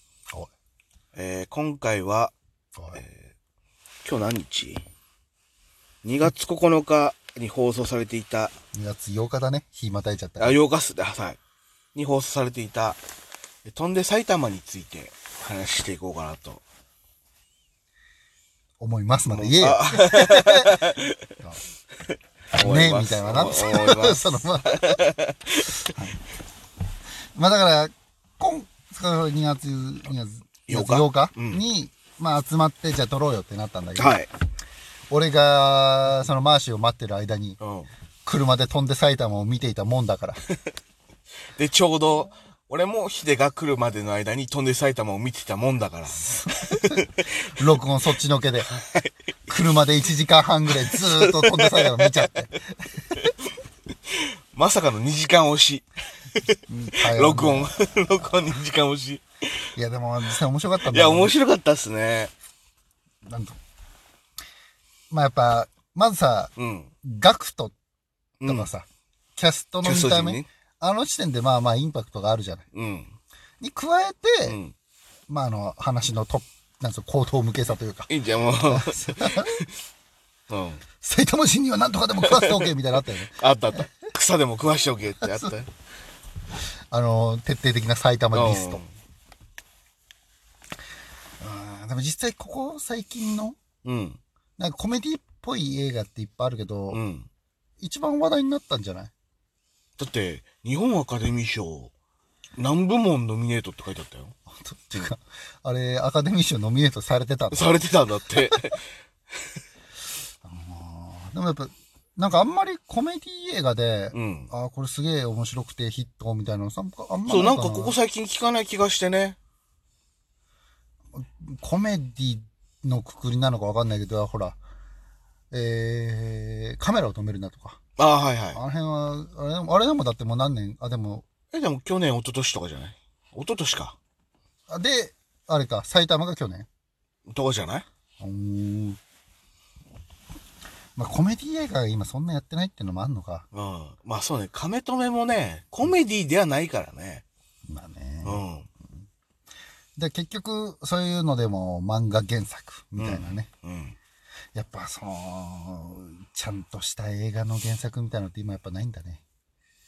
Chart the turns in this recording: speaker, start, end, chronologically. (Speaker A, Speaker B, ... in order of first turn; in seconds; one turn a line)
Speaker A: 1.1-2.3
Speaker A: 2.9-3.3
Speaker A: 4.0-4.8
Speaker A: 6.0-8.5
Speaker B: 8.7-10.6
Speaker A: 10.4-11.4
Speaker A: 11.9-13.0
Speaker A: 13.7-16.6
Speaker B: 18.8-20.8
Speaker A: 19.3-21.2
Speaker B: 22.5-25.0
Speaker A: 22.5-25.9
Speaker B: 25.8-26.2
Speaker B: 27.3-34.2
Speaker A: 30.7-31.6
Speaker A: 34.0-34.3
Speaker B: 35.1-37.6
Speaker A: 37.6-37.9
Speaker B: 38.2-40.4
Speaker A: 41.6-47.3
Speaker B: 46.2-48.7
Speaker A: 48.7-49.1
Speaker B: 49.5-52.6
Speaker A: 50.8-52.4
Speaker A: 54.1-59.2
Speaker B: 56.7-58.3
Speaker B: 59.8-61.3
Speaker A: 60.9-62.3
Speaker B: 63.2-63.6
Speaker B: 65.1-66.5
Speaker A: 66.6-66.9
Speaker B: 67.0-67.7
Speaker A: 68.4-68.7
Speaker B: 68.5-72.6
Speaker A: 69.8-70.5
Speaker A: 72.7-73.2
Speaker B: 73.6-74.6
Speaker A: 74.4-74.7
Speaker B: 75.3-78.1
Speaker A: 78.1-79.7
Speaker B: 78.6-79.5
Speaker A: 80.5-80.8
Speaker B: 81.0-83.4
Speaker A: 82.2-82.7
Speaker A: 83.3-85.7
Speaker B: 85.2-85.5
Speaker B: 86.9-88.8
Speaker A: 88.3-88.9
Speaker B: 91.4-93.6
Speaker A: 93.8-94.2
Speaker B: 94.6-97.0
Speaker A: 96.9-97.3
Speaker B: 97.8-99.1
Speaker A: 100.0-101.9
Speaker A: 102.6-104.3
Speaker B: 104.5-107.7
Speaker A: 107.5-108.8
Speaker B: 110.4-118.0
Speaker A: 114.1-114.5
Speaker A: 117.3-119.4
Speaker B: 121.1-124.6
Speaker B: 125.5-127.8
Speaker A: 128.0-128.6
Speaker B: 128.5-131.2
Speaker A: 131.5-133.9
Speaker B: 134.7-136.7
Speaker A: 137.3-137.8
Speaker B: 138.2-139.0
Speaker B: 140.9-143.4
Speaker A: 143.5-147.2
Speaker B: 147.7-148.4
Speaker A: 148.2-148.7
Speaker B: 150.0-153.5
Speaker A: 153.0-153.9
Speaker B: 154.5-159.2